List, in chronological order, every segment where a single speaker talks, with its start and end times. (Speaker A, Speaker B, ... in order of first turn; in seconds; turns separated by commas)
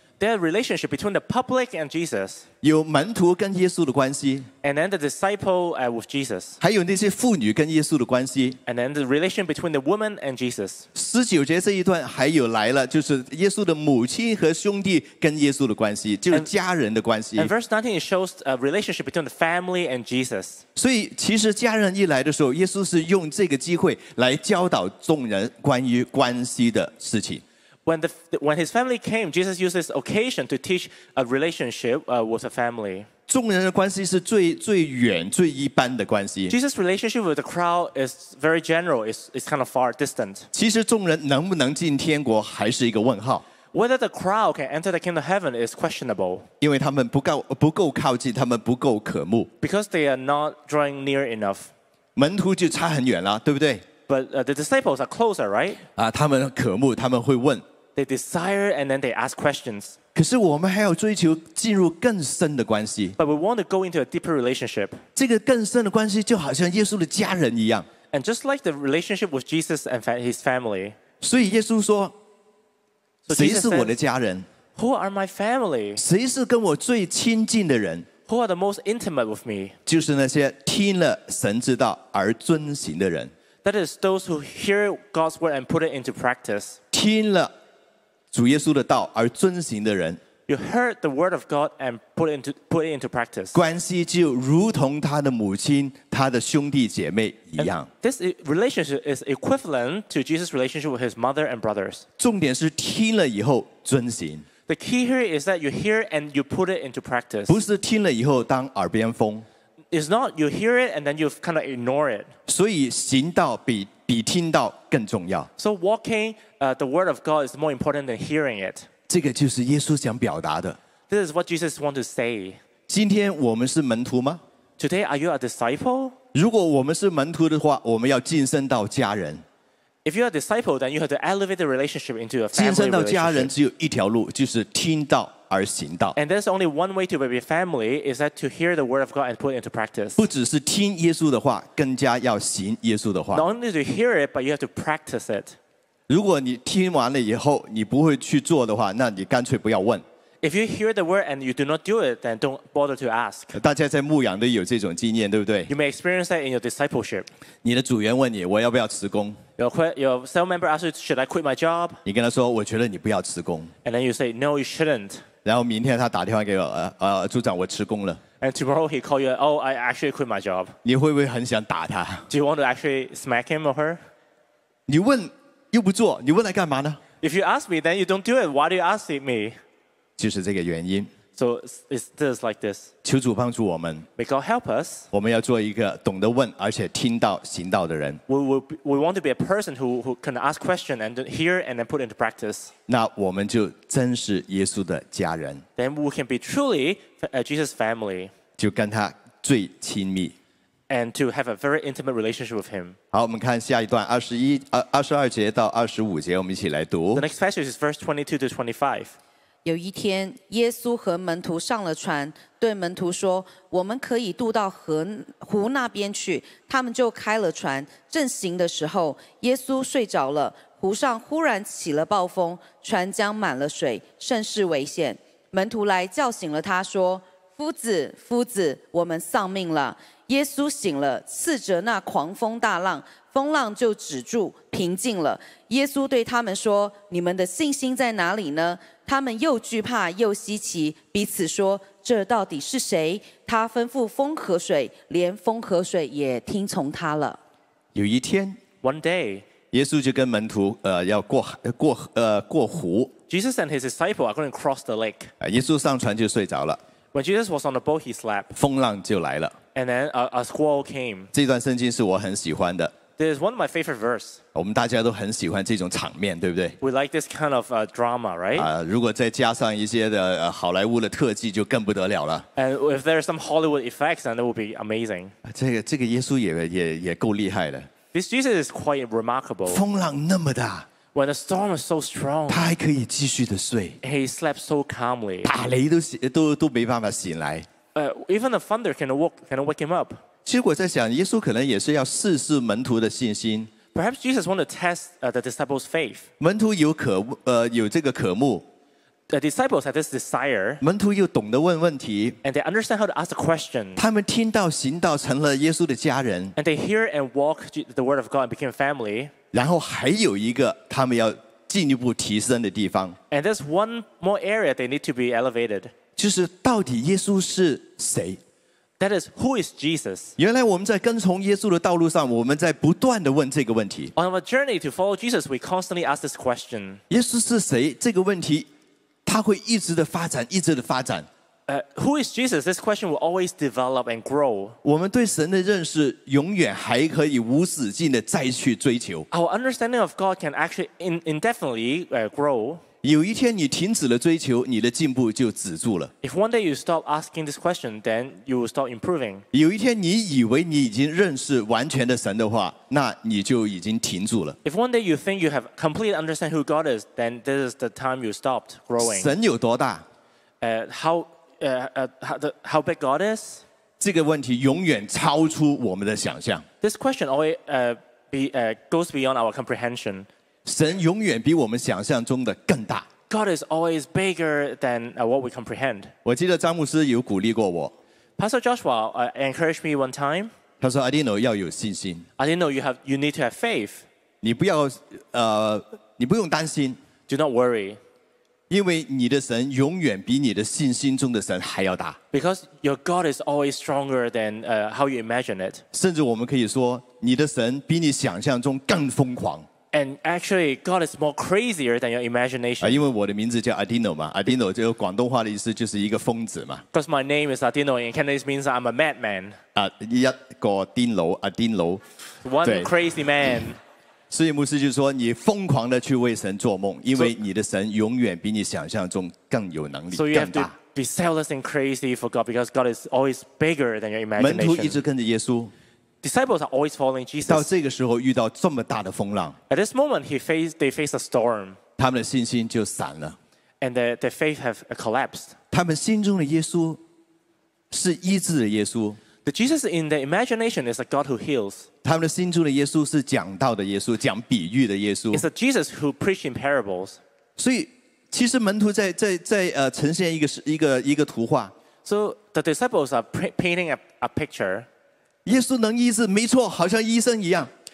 Speaker A: 0.2-2.5, Speaker B: 2.6-4.5, Speaker A: 4.6-6.6, Speaker B: 6.6-8.6, Speaker A: 8.7-10.9, Speaker B: 10.9-17.5, Speaker A: 17.4-20.6, Speaker B: 20.8-27.4, Speaker A: 27.9-33.1, Speaker B: 33.3-36.5, Speaker A: 36.5-40.5, Speaker B: 40.5-43.5, Speaker A: 43.7-46.5, Speaker B: 46.6-49.5, Speaker A: 49.6-51.7, Speaker B: 52.2-53.9, Speaker A: 54.1-55.8, Speaker B: 56.0-57.6, Speaker A: 58.0-60.0, Speaker B: 60.1-63.2, Speaker A: 63.2-65.0, Speaker B: 65.2-67.9, Speaker A: 68.1-71.0, Speaker B: 71.2-72.2, Speaker A: 73.3-74.0, Speaker B: 73.3-74.5, Speaker A: 74.8-76.0, Speaker B: 76.0-78.1, Speaker A: 78.3-79.8, Speaker B: 79.9-83.3, Speaker A: 83.6-86.8, Speaker B: 86.9-87.5, Speaker B: 88.3-90.2, Speaker A: 90.5-93.6, Speaker B: 93.5-97.9, Speaker A: 97.6-102.0, Speaker B: 102.2-104.5, Speaker A: 104.7-107.6, Speaker B: 107.5-109.5, Speaker A: 109.9-112.3, Speaker B: 112.5-115.5, Speaker A: 115.6-118.9, Speaker B: 119.1-120.8, Speaker A: 121.1-122.6, Speaker B: 122.9-124.4, Speaker A: 124.8-126.2, Speaker B: 126.3-129.4, Speaker A: 130.1-133.5, Speaker B: 132.5-136.2, Speaker A: 136.2-140.2, Speaker B: 140.2-143.4, Speaker A: 143.3-145.6, Speaker B: 146.1-150.0, Speaker A: 150.4-153.6, Speaker B: 153.6-155.7, Speaker A: 155.7-157.3, Speaker B: 157.6-159.4, Speaker A: 159.6-162.0, Speaker B: 162.1-163.7, Speaker A: 163.8-165.2, Speaker B: 165.4-168.2, Speaker A: 168.4-170.7, Speaker B: 170.8-172.3, Speaker A: 172.3-174.0, Speaker B: 174.9-177.0, Speaker A: 177.2-179.6, Speaker B: 180.2-181.1, Speaker A: 181.4-182.9, Speaker B: 183.0-184.1, Speaker A: 184.2-185.1, Speaker B: 185.1-188.2, Speaker A: 188.3-192.7, Speaker B: 192.9-195.6, Speaker A: 195.8-198.3, Speaker B: 198.6-200.3, Speaker A: 200.9-203.0, Speaker B: 203.1-207.3, Speaker A: 207.2-209.1, Speaker C: 209.7-247.4, Speaker B: 247.9-248.6, Speaker A: 248.8-249.5, Speaker B: 249.7-253.1, Speaker A: 253.3-255.3, Speaker B: 255.4-256.8, Speaker A: 257.1-258.5, Speaker B: 258.5-259.6, Speaker A: 259.8-261.3, Speaker B: 261.3-262.9, Speaker A: 263.2-264.4, Speaker B: 264.6-266.8, Speaker A: 266.8-268.7, Speaker B: 268.6-272.5, Speaker A: 272.6-275.3, Speaker B: 275.4-277.9, Speaker A: 278.1-279.8, Speaker B: 279.7-280.9, Speaker A: 281.1-282.7, Speaker B: 282.5-284.0, Speaker A: 284.0-285.5, Speaker B: 285.4-287.7, Speaker A: 287.9-290.2, Speaker B: 290.4-293.7, Speaker A: 293.9-296.3, Speaker B: 296.4-298.7, Speaker A: 299.3-300.8, Speaker B: 300.8-302.4, Speaker A: 302.4-304.0, Speaker B: 304.0-306.6, Speaker A: 306.6-309.3, Speaker B: 309.5-313.2, Speaker A: 313.3-315.9, Speaker B: 316.2-318.4, Speaker A: 319.0-320.4, Speaker B: 320.4-324.1, Speaker A: 324.2-327.0, Speaker B: 327.1-328.7, Speaker B: 329.2-331.3, Speaker A: 331.7-334.8, Speaker B: 334.8-339.3, Speaker A: 339.3-342.8, Speaker B: 343.0-346.1, Speaker A: 346.2-349.4, Speaker B: 349.5-354.6, Speaker A: 354.6-359.3, Speaker B: 359.0-360.1, Speaker A: 360.6-363.6, Speaker B: 364.0-366.7, Speaker A: 366.8-370.3, Speaker B: 370.6-373.1, Speaker A: 373.3-376.1, Speaker B: 376.2-377.9, Speaker A: 378.4-380.5, Speaker B: 380.8-382.3, Speaker A: 382.4-384.1, Speaker B: 384.4-387.0, Speaker A: 387.3-388.0, Speaker B: 388.7-392.2, Speaker A: 392.3-395.8, Speaker B: 395.9-399.7, Speaker A: 399.9-403.0, Speaker B: 402.8-406.9, Speaker A: 406.9-409.6, Speaker B: 409.8-412.0, Speaker A: 412.4-413.8, Speaker B: 412.6-412.9, Speaker B: 414.3-420.7, Speaker A: 420.1-425.0, Speaker B: 424.4-425.7, Speaker A: 426.2-427.7, Speaker B: 427.5-429.6, Speaker A: 429.7-431.8, Speaker B: 432.0-433.4, Speaker A: 433.8-435.6, Speaker B: 435.7-437.0, Speaker B: 437.9-439.2, Speaker A: 439.4-441.9, Speaker B: 442.0-445.5, Speaker A: 445.3-447.2, Speaker B: 447.6-451.7, Speaker A: 452.1-454.9, Speaker B: 455.5-457.7